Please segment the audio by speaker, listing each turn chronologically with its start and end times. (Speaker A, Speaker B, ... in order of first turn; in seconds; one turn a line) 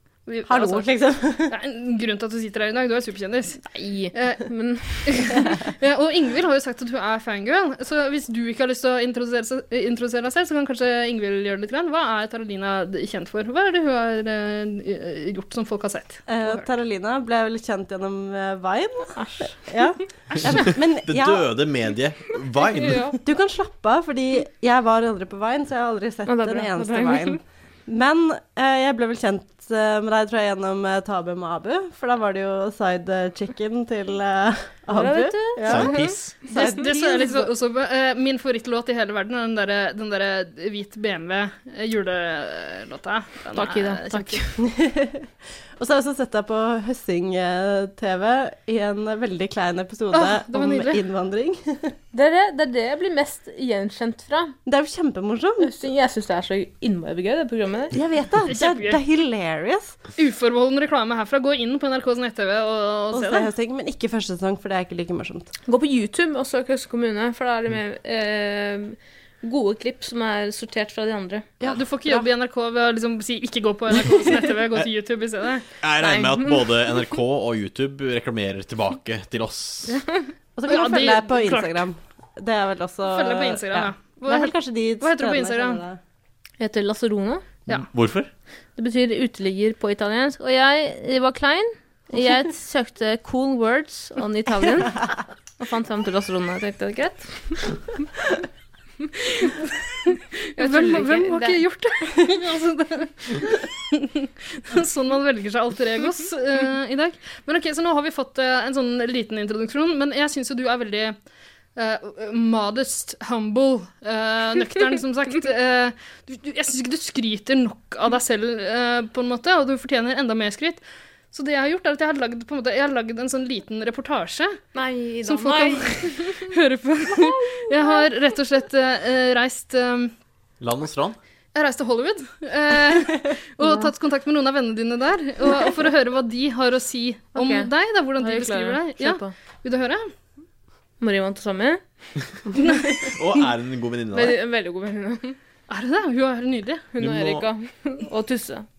Speaker A: 0.3-0.9
Speaker B: 0.5-1.5
Speaker A: 1.5-4.5
Speaker C: 3.7-5.5
Speaker A: 5.0-16.7
Speaker B: 16.3-21.6
Speaker C: 19.2-19.6
Speaker D: 20.5-23.1
Speaker C: 22.9-23.1
Speaker B: 23.2-37.5
Speaker C: 26.3-27.4
Speaker C: 34.9-36.2
Speaker D: 35.6-36.5
Speaker A: 36.5-44.4
Speaker C: 43.5-44.5
Speaker B: 44.6-52.0
Speaker A: 50.1-51.0
Speaker C: 52.1-54.5
Speaker B: 54.7-55.7
Speaker C: 55.6-57.9
Speaker B: 57.9-60.0
Speaker A: 58.5-59.0
Speaker A: 60.2-63.5
Speaker B: 63.1-65.5
Speaker C: 65.7-71.5
Speaker B: 71.6-72.3
Speaker A: 71.6-75.7
Speaker D: 75.8-80.0
Speaker C: 76.0-77.1
Speaker B: 80.6-86.0
Speaker A: 80.7-81.9
Speaker A: 83.1-85.8
Speaker C: 86.6-87.5
Speaker D: 87.7-88.3
Speaker C: 88.8-95.1
Speaker C: 95.6-97.7
Speaker A: 99.4-111.2
Speaker C: 100.6-101.6
Speaker A: 111.8-120.8
Speaker A: 121.3-124.6
Speaker C: 124.7-126.5
Speaker A: 125.2-130.1
Speaker C: 127.1-128.1
Speaker D: 130.6-131.2
Speaker A: 131.6-140.1
Speaker C: 137.3-139.3
Speaker C: 141.0-141.8
Speaker A: 142.6-142.9
Speaker D: 143.1-144.4
Speaker C: 144.1-145.4
Speaker A: 145.7-146.9
Speaker C: 147.0-148.7
Speaker D: 147.0-147.5